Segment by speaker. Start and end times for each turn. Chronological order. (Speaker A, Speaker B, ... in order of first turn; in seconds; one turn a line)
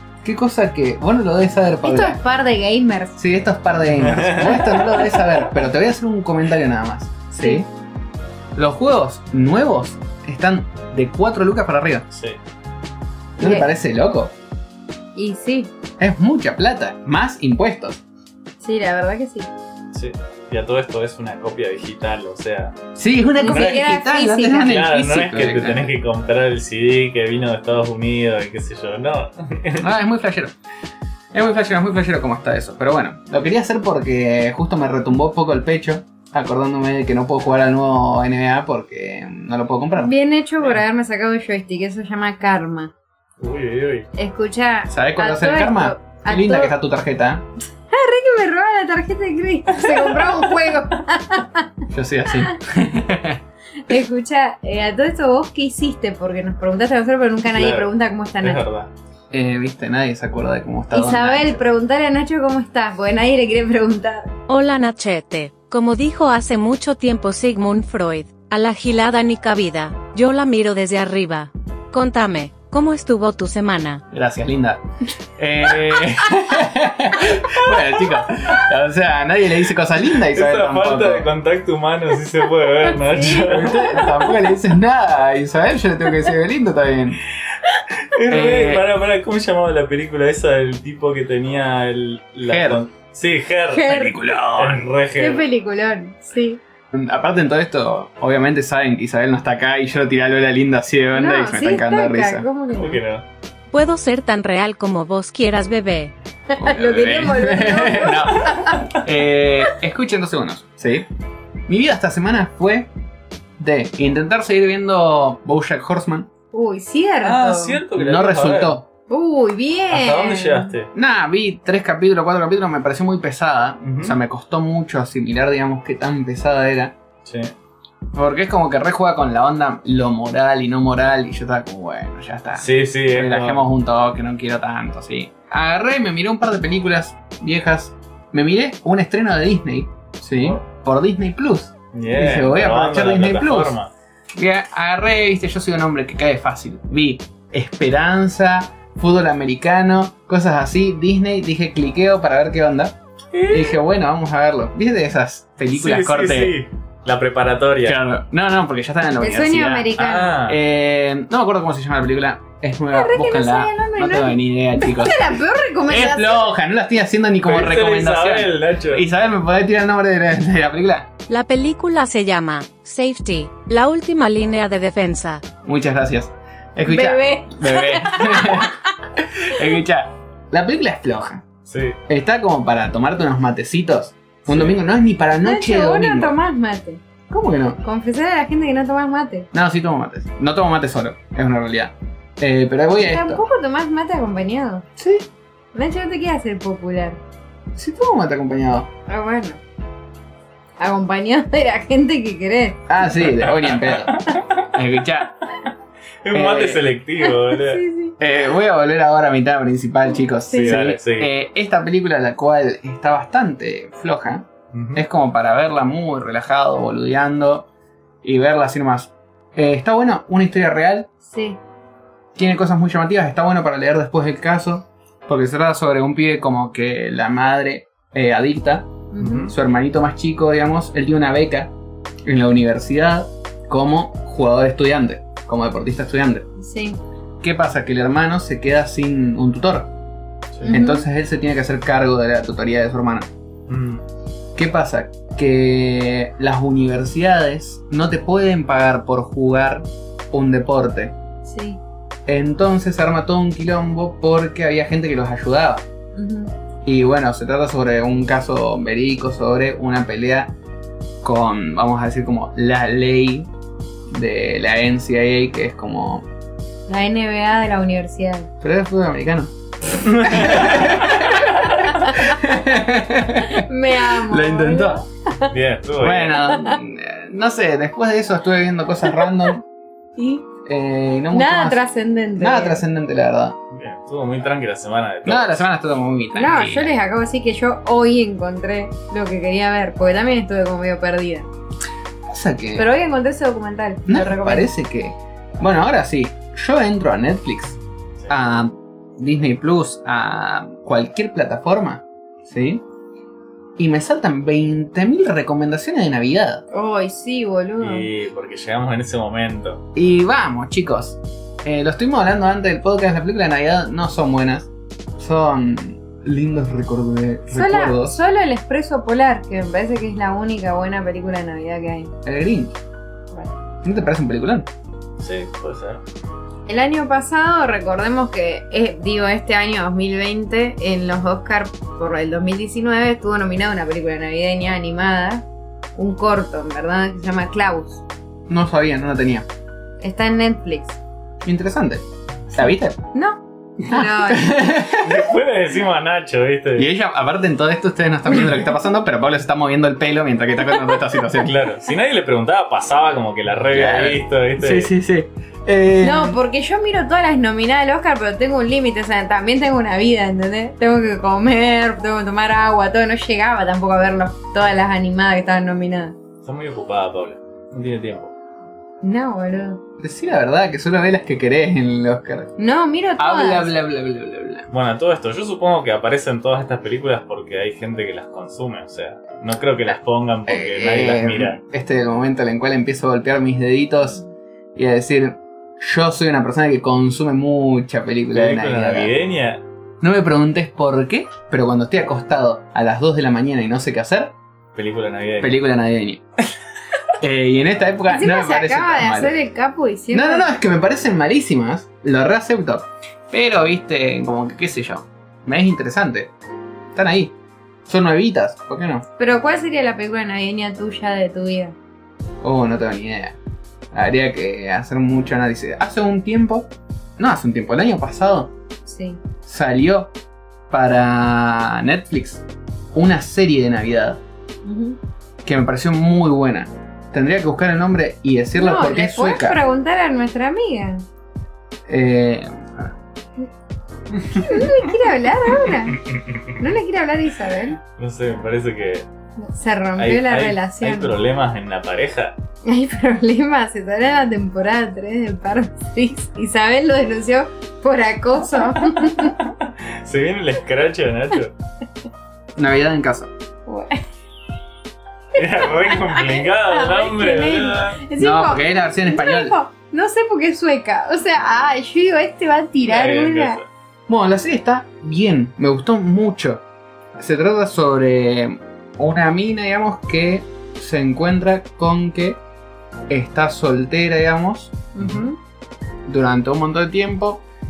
Speaker A: 0.2-2.2
Speaker B: 1.8-3.2
Speaker A: 3.2-7.7
Speaker C: 4.0-4.9
Speaker A: 8.6-12.1
Speaker C: 12.1-12.4
Speaker A: 13.4-14.3
Speaker B: 13.4-13.7
Speaker B: 15.2-15.7
Speaker A: 16.0-18.0
Speaker B: 18.6-19.5
Speaker C: 19.9-22.8
Speaker A: 23.0-25.9
Speaker B: 23.4-24.7
Speaker C: 23.4-23.9
Speaker C: 24.6-29.9
Speaker A: 29.8-30.5
Speaker A: 31.3-40.1
Speaker B: 40.0-42.9
Speaker C: 43.4-44.1
Speaker B: 44.2-46.7
Speaker A: 44.9-47.5
Speaker B: 47.9-51.7
Speaker A: 51.9-53.4
Speaker B: 53.9-58.6
Speaker C: 57.5-58.9
Speaker A: 59.3-61.6
Speaker B: 60.9-64.3
Speaker D: 64.5-74.0
Speaker A: 74.1-74.8
Speaker A: 75.4-81.3
Speaker C: 80.3-84.0
Speaker B: 82.9-84.3
Speaker A: 83.5-87.2
Speaker C: 88.0-95.5
Speaker A: 88.3-88.8
Speaker A: 92.5-92.8
Speaker B: 93.7-94.2
Speaker A: 93.8-94.9
Speaker B: 95.2-96.6
Speaker A: 96.9-102.5
Speaker B: 101.1-103.0
Speaker C: 102.7-103.2
Speaker D: 103.7-106.1
Speaker B: 106.5-108.9
Speaker A: 106.6-111.1
Speaker A: 111.7-112.9
Speaker A: 113.6-116.3
Speaker B: 116.5-117.8
Speaker C: 117.2-118.8
Speaker A: 117.9-118.9
Speaker B: 119.1-120.7
Speaker C: 119.9-120.9
Speaker A: 120.9-127.0
Speaker C: 123.8-124.2
Speaker C: 127.2-127.5
Speaker A: 128.1-143.8
Speaker C: 132.6-133.7
Speaker C: 140.3-140.6
Speaker C: 141.9-143.9
Speaker A: 144.3-153.0
Speaker C: 153.3-153.8
Speaker A: 153.5-156.6
Speaker C: 155.7-158.0
Speaker A: 157.8-165.4
Speaker B: 159.2-160.3
Speaker C: 160.0-160.6
Speaker B: 162.9-166.5
Speaker A: 165.9-171.1
Speaker C: 167.4-169.1
Speaker D: 171.3-175.4
Speaker A: 175.6-181.4
Speaker B: 176.8-178.8
Speaker C: 181.7-182.0
Speaker A: 182.1-186.3
Speaker C: 184.5-184.8
Speaker B: 185.4-187.0
Speaker A: 187.3-187.8
Speaker B: 187.8-189.5
Speaker A: 189.5-193.4
Speaker B: 193.0-194.9
Speaker A: 195.0-195.3
Speaker B: 195.7-197.2
Speaker A: 197.8-198.9
Speaker B: 199.1-199.6
Speaker B: 200.8-203.0
Speaker A: 202.9-205.4
Speaker C: 203.2-204.7
Speaker C: 206.2-207.8
Speaker A: 206.3-206.9
Speaker B: 207.2-208.2
Speaker A: 208.2-217.7
Speaker B: 210.5-210.8
Speaker C: 210.5-211.3
Speaker C: 214.7-215.0
Speaker A: 218.2-221.1
Speaker B: 221.2-221.6
Speaker A: 222.4-231.7
Speaker B: 229.1-229.5
Speaker C: 229.2-229.5
Speaker A: 232.2-236.5
Speaker B: 236.6-237.0
Speaker A: 237.4-239.9
Speaker B: 240.6-241.1
Speaker A: 240.7-243.3
Speaker C: 243.7-244.0
Speaker A: 244.6-251.2
Speaker B: 251.4-251.8
Speaker A: 252.3-255.8
Speaker B: 256.2-256.5
Speaker A: 256.9-260.5
Speaker A: 261.2-263.5
Speaker A: 264.1-266.3
Speaker B: 266.9-268.5
Speaker A: 268.6-269.5
Speaker C: 270.0-271.6
Speaker A: 270.1-275.0
Speaker B: 271.8-272.4
Speaker B: 273.4-275.5
Speaker C: 275.5-276.4
Speaker A: 276.0-279.6
Speaker B: 276.5-276.8
Speaker B: 280.2-280.4
Speaker A: 280.7-281.8
Speaker B: 281.3-282.8
Speaker A: 282.4-283.6
Speaker C: 283.7-285.7
Speaker A: 285.2-286.9
Speaker B: 286.3-291.5
Speaker A: 292.3-292.9
Speaker B: 292.8-294.7
Speaker A: 294.1-297.8
Speaker A: 298.3-302.8
Speaker A: 303.8-306.6
Speaker B: 306.7-308.1
Speaker C: 307.8-309.8
Speaker A: 309.9-318.2
Speaker B: 317.5-322.1
Speaker A: 322.2-322.8
Speaker A: 323.8-324.7
Speaker C: 325.2-326.0
Speaker B: 326.7-335.5
Speaker B: 336.0-338.0
Speaker A: 338.5-339.5
Speaker B: 340.0-341.0
Speaker A: 341.4-343.0
Speaker B: 343.1-344.5
Speaker A: 343.9-345.3
Speaker C: 345.0-346.9
Speaker A: 346.8-351.6
Speaker C: 351.3-354.9
Speaker A: 353.7-356.4
Speaker B: 356.0-366.2
Speaker C: 366.4-368.3
Speaker B: 369.0-369.8
Speaker A: 370.0-372.5
Speaker B: 372.6-373.7
Speaker A: 373.2-374.7
Speaker C: 374.7-381.6
Speaker A: 380.5-384.2
Speaker A: 384.8-389.1
Speaker C: 388.3-389.6
Speaker A: 390.0-394.4
Speaker C: 394.8-395.6
Speaker A: 395.4-396.2
Speaker A: 397.2-399.3
Speaker B: 398.1-400.5
Speaker A: 400.1-406.3
Speaker A: 406.9-407.3
Speaker A: 407.9-409.1
Speaker B: 409.2-411.8
Speaker A: 412.4-413.4
Speaker A: 413.9-418.5
Speaker B: 418.9-419.2
Speaker A: 419.4-420.1
Speaker A: 420.7-424.2
Speaker B: 424.6-425.0
Speaker A: 425.4-429.6
Speaker B: 428.5-431.1
Speaker A: 431.9-432.9
Speaker C: 434.1-434.6
Speaker B: 434.3-436.0
Speaker C: 435.9-436.2
Speaker B: 436.6-437.8
Speaker C: 437.9-439.1
Speaker B: 439.4-441.1
Speaker C: 440.0-442.4
Speaker B: 442.6-449.3
Speaker C: 449.2-451.5
Speaker A: 452.6-453.3
Speaker B: 453.7-454.0
Speaker C: 455.3-458.0
Speaker B: 455.4-463.6
Speaker A: 458.2-459.6
Speaker C: 462.8-463.7
Speaker A: 464.1-466.6
Speaker A: 467.2-472.4
Speaker A: 473.1-474.9
Speaker B: 474.9-475.4
Speaker C: 475.0-475.3
Speaker A: 476.1-477.4